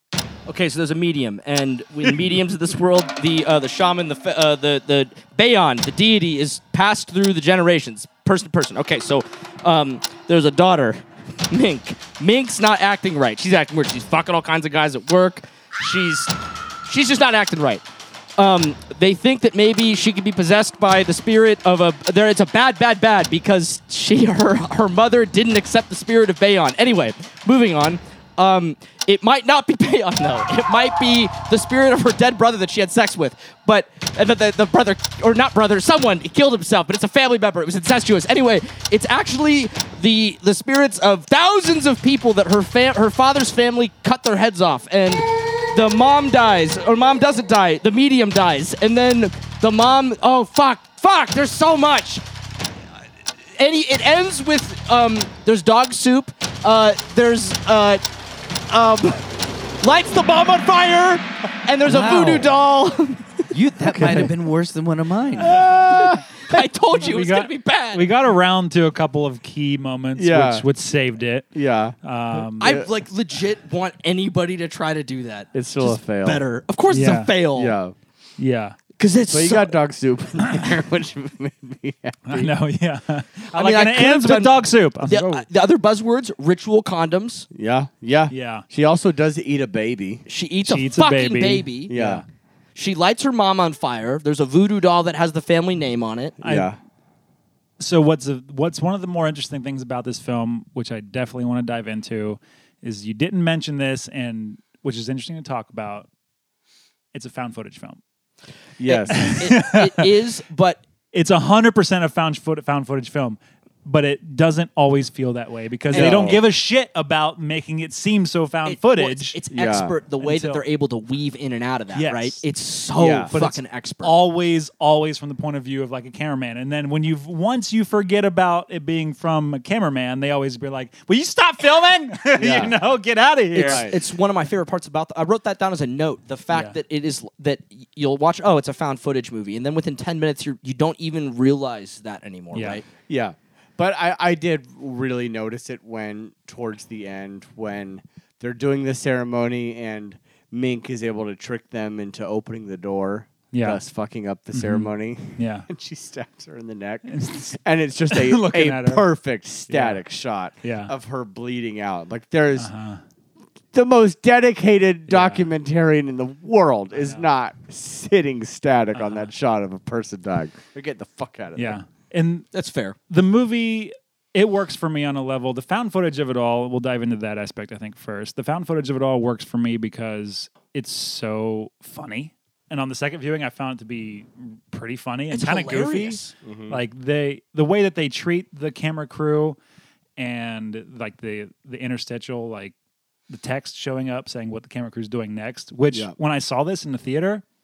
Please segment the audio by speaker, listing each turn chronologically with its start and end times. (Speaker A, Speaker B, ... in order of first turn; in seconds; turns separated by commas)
Speaker A: 0.5-17.9, Speaker A: 18.4-52.2, Speaker A: 53.5-58.0, Speaker A: 58.7-63.5, Speaker B: 61.9-62.5, Speaker B: 63.5-65.8, Speaker C: 63.8-64.3, Speaker C: 65.4-66.3, Speaker A: 65.5-68.1, Speaker D: 66.9-72.8, Speaker C: 70.2-70.7, Speaker C: 71.5-72.0, Speaker C: 72.6-72.9, Speaker A: 72.6-77.8, Speaker C: 75.5-76.5, Speaker D: 76.9-77.3, Speaker C: 77.5-77.9, Speaker D: 78.4-78.8, Speaker A: 79.0-79.8, Speaker C: 79.3-82.5, Speaker D: 82.3-85.5, Speaker A: 83.5-87.5, Speaker C: 87.5-90.2, Speaker D: 88.3-88.7, Speaker A: 90.3-92.0, Speaker D: 90.6-92.2, Speaker C: 91.9-92.2, Speaker A: 92.8-96.4, Speaker D: 96.4-96.7, Speaker C: 96.4-96.8, Speaker D: 97.8-106.1, Speaker D: 107.1-108.0, Speaker C: 108.8-109.4, Speaker A: 108.8-110.8, Speaker D: 109.1-110.2, Speaker D: 111.1-119.4, Speaker A: 115.9-116.4, Speaker C: 115.9-116.5, Speaker A: 118.7-124.2, Speaker C: 119.5-120.0, Speaker D: 120.2-120.7, Speaker D: 121.9-122.5, Speaker C: 123.0-123.3, Speaker D: 123.3-133.9, Speaker C: 132.4-132.8, Speaker A: 133.5-142.8, Speaker C: 133.6-133.9, Speaker D: 142.5-142.8, Speaker C: 143.1-162.7, Speaker D: 153.5-153.8, Speaker D: 154.5-155.7, Speaker D: 157.1-157.6, Speaker D: 158.1-159.1, Speaker D: 159.7-160.0, Speaker D: 160.6-160.9, Speaker D: 162.6-163.0, Speaker C: 163.7-171.8, Speaker D: 165.1-165.5, Speaker D: 166.9-167.3, Speaker D: 168.9-169.3, Speaker D: 171.6-172.5, Speaker A: 172.5-173.0, Speaker D: 173.1-189.6, Speaker A: 185.3-186.3, Speaker C: 186.4-186.8, Speaker D: 190.2-192.8, Speaker D: 193.3-197.4